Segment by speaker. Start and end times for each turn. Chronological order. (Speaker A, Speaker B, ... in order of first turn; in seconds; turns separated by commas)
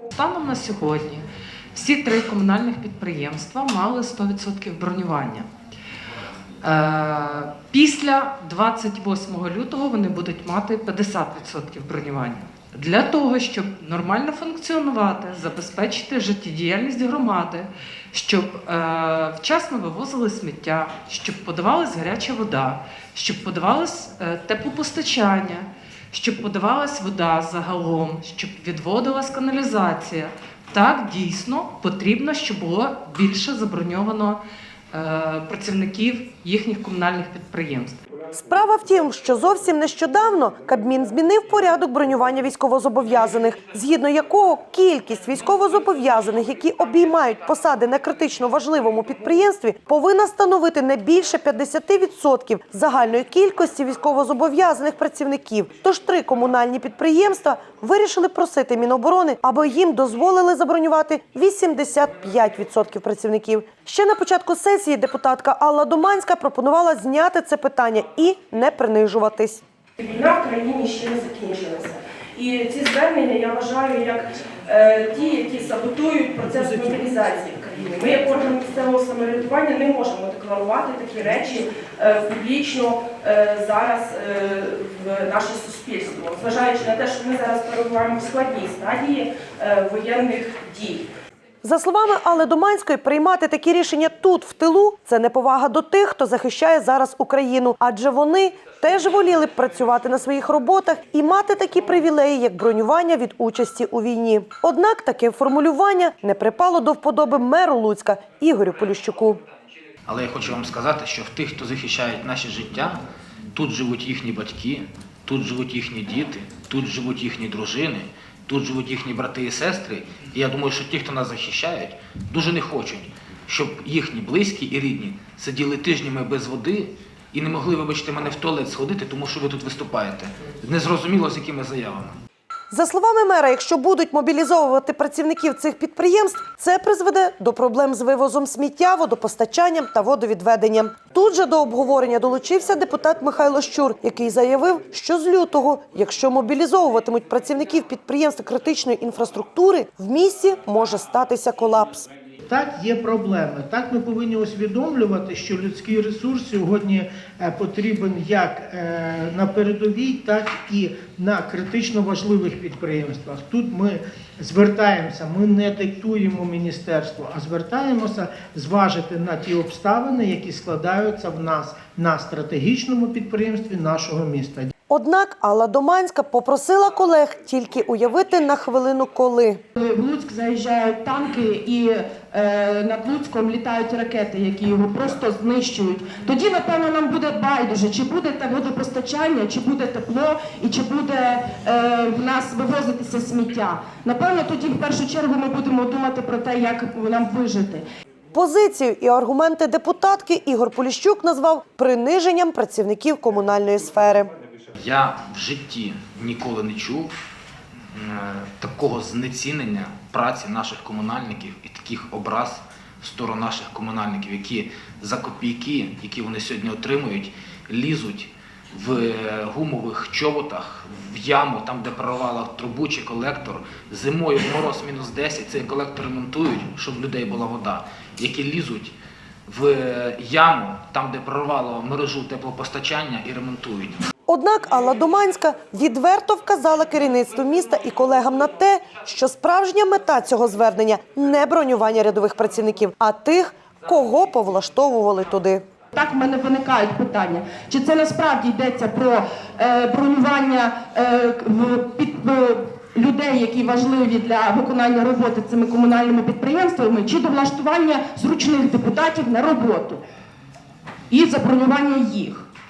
Speaker A: 0.1-1.2, Speaker A: 1.7-5.5, Speaker A: 6.6-34.4, Speaker A: 34.9-38.0, Speaker B: 38.3-69.6, Speaker C: 70.0-74.2, Speaker D: 71.8-72.4, Speaker D: 74.2-75.2, Speaker C: 74.8-85.0, Speaker D: 84.1-86.2, Speaker C: 85.5-91.1, Speaker D: 90.5-90.8, Speaker B: 91.6-109.4, Speaker E: 110.0-113.0, Speaker E: 113.5-132.2, Speaker B: 132.7-152.1, Speaker F: 152.4-174.7, Speaker B: 174.9-179.6, Speaker D: 179.8-197.8, Speaker B: 198.3-204.3, Speaker E: 204.8-207.1, Speaker E: 207.9-228.9, Speaker E: 229.5-234.0, Speaker B: 234.3-245.6, Speaker D: 245.9-260.0, Speaker D: 261.1-262.4